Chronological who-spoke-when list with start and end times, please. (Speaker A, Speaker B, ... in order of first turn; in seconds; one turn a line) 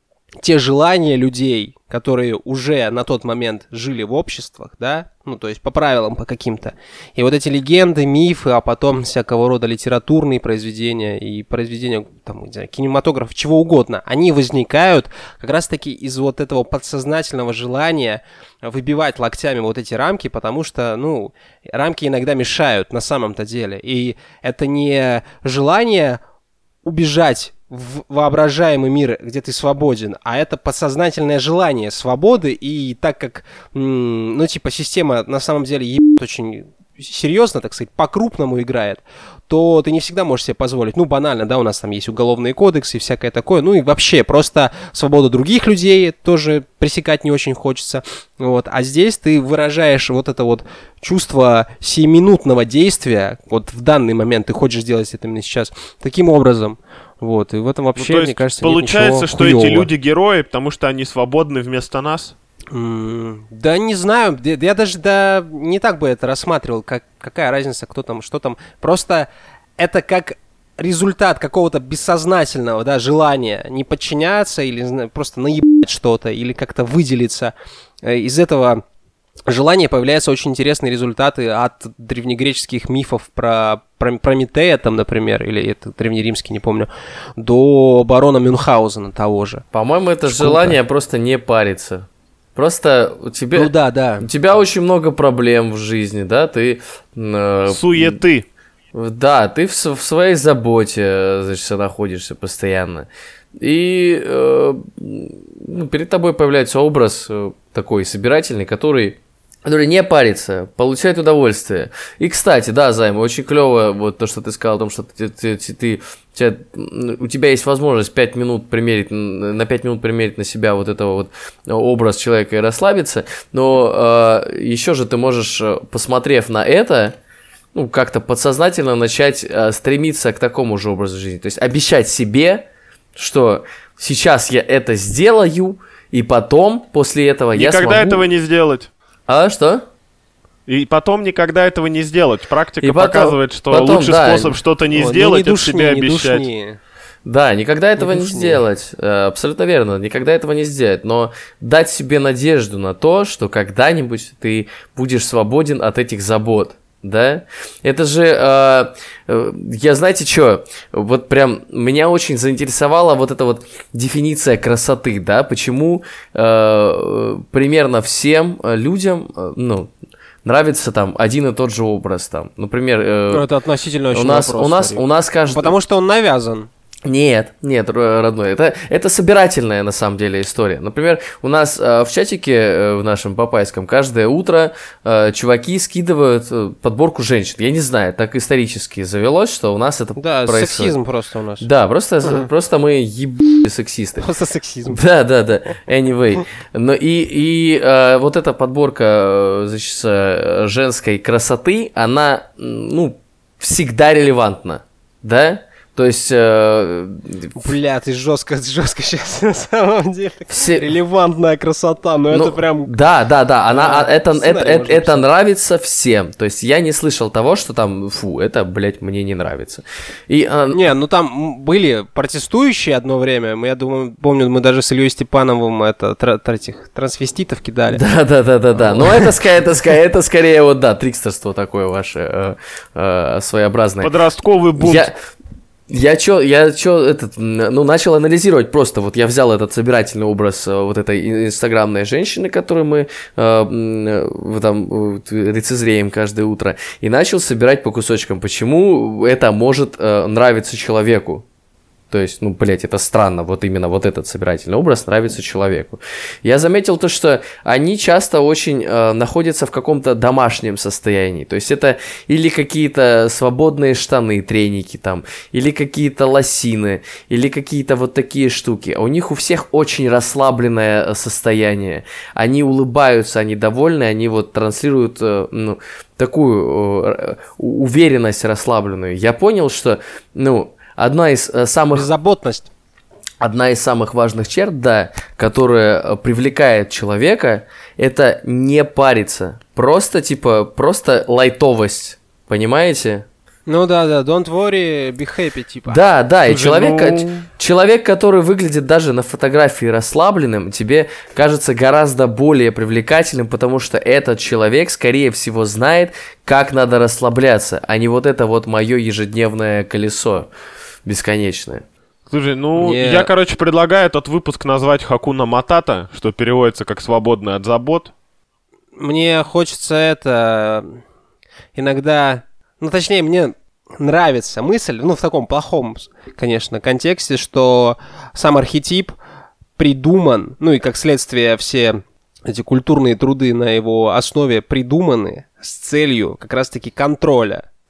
Speaker A: 0.4-26.2
Speaker A: 26.8-59.9
Speaker B: 58.0-62.3
Speaker A: 62.7-69.3
Speaker A: 69.8-78.8
Speaker A: 79.5-89.6
Speaker C: 89.7-98.2
Speaker A: 90.2-90.8
Speaker A: 93.5-94.3
Speaker B: 97.7-98.4
Speaker C: 98.9-127.2
Speaker C: 127.7-138.3
Speaker B: 137.5-138.9
Speaker C: 139.3-139.8
Speaker B: 140.7-146.4
Speaker C: 142.8-144.5
Speaker A: 144.9-146.8
Speaker C: 147.2-169.9
Speaker A: 148.0-148.6
Speaker C: 170.4-173.4
Speaker A: 173.3-176.7
Speaker C: 174.1-175.7
Speaker C: 177.0-190.9
Speaker A: 190.2-191.7
Speaker C: 191.6-194.3
Speaker A: 194.2-195.0
Speaker C: 194.9-207.6
Speaker A: 207.5-212.9
Speaker C: 210.5-210.9
Speaker C: 212.3-220.8
Speaker A: 213.7-215.2
Speaker A: 220.7-228.0
Speaker C: 227.9-234.1
Speaker A: 228.8-229.2
Speaker B: 234.0-235.1
Speaker C: 234.8-235.1
Speaker C: 235.9-251.4
Speaker C: 252.1-282.1
Speaker A: 281.9-282.7
Speaker C: 283.4-293.2
Speaker A: 293.7-296.0
Speaker C: 295.9-310.5
Speaker B: 296.5-297.4
Speaker C: 311.0-311.8
Speaker B: 312.3-318.1
Speaker A: 312.8-313.3
Speaker A: 319.0-321.0
Speaker A: 321.7-329.1
Speaker A: 329.8-337.6